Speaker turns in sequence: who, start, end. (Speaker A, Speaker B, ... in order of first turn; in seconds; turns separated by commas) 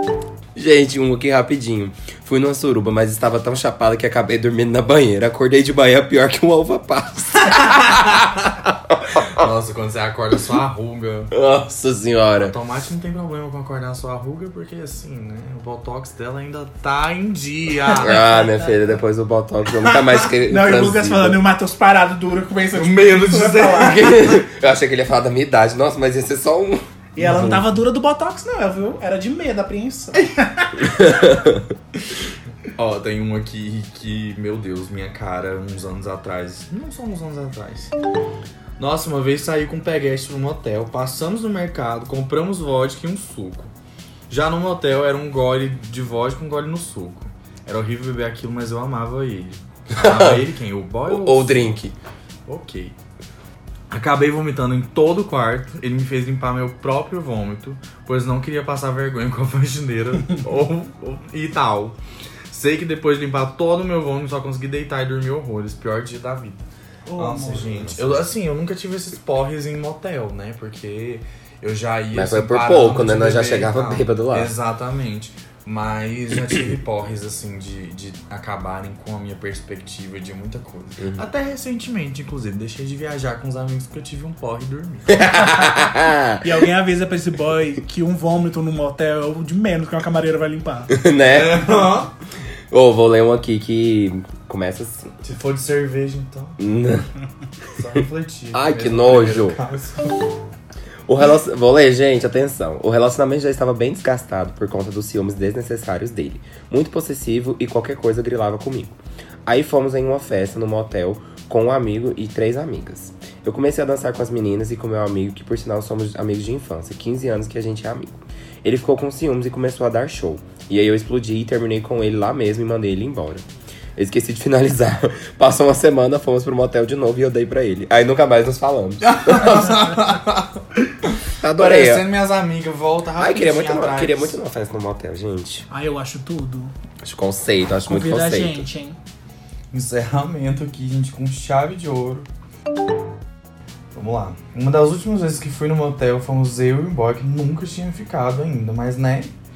Speaker A: 0.6-9.5, Speaker B: 9.3-11.3, Speaker A: 11.3-12.6, Speaker B: 12.4-18.3, Speaker C: 17.9-18.3, Speaker A: 18.0-21.4, Speaker C: 19.9-24.1, Speaker B: 22.7-24.2, Speaker A: 23.8-27.6, Speaker C: 27.2-30.9, Speaker A: 31.0-31.6, Speaker B: 32.8-37.9, Speaker B: 38.8-43.7, Speaker B: 44.3-51.8, Speaker A: 50.0-50.4, Speaker A: 51.1-52.0, Speaker B: 52.5-53.0, Speaker B: 53.9-62.0, Speaker B: 62.5-85.2, Speaker C: 67.1-67.8, Speaker A: 67.7-68.2, Speaker A: 72.1-74.5, Speaker A: 85.1-86.4, Speaker C: 85.4-85.7, Speaker C: 86.4-90.9, Speaker A: 90.9-91.7, Speaker B: 91.3-92.1, Speaker A: 92.7-95.1, Speaker B: 95.2-96.6, Speaker A: 96.6-97.1, Speaker B: 97.7-100.1, Speaker A: 98.5-99.6, Speaker A: 101.1-123.4, Speaker A: 124.0-129.7, Speaker B: 129.0-134.4, Speaker A: 131.4-132.1, Speaker A: 133.2-135.7, Speaker C: 135.7-136.7, Speaker A: 137.0-138.7, Speaker C: 137.8-139.0, Speaker B: 139.7-142.3, Speaker B: 143.9-149.3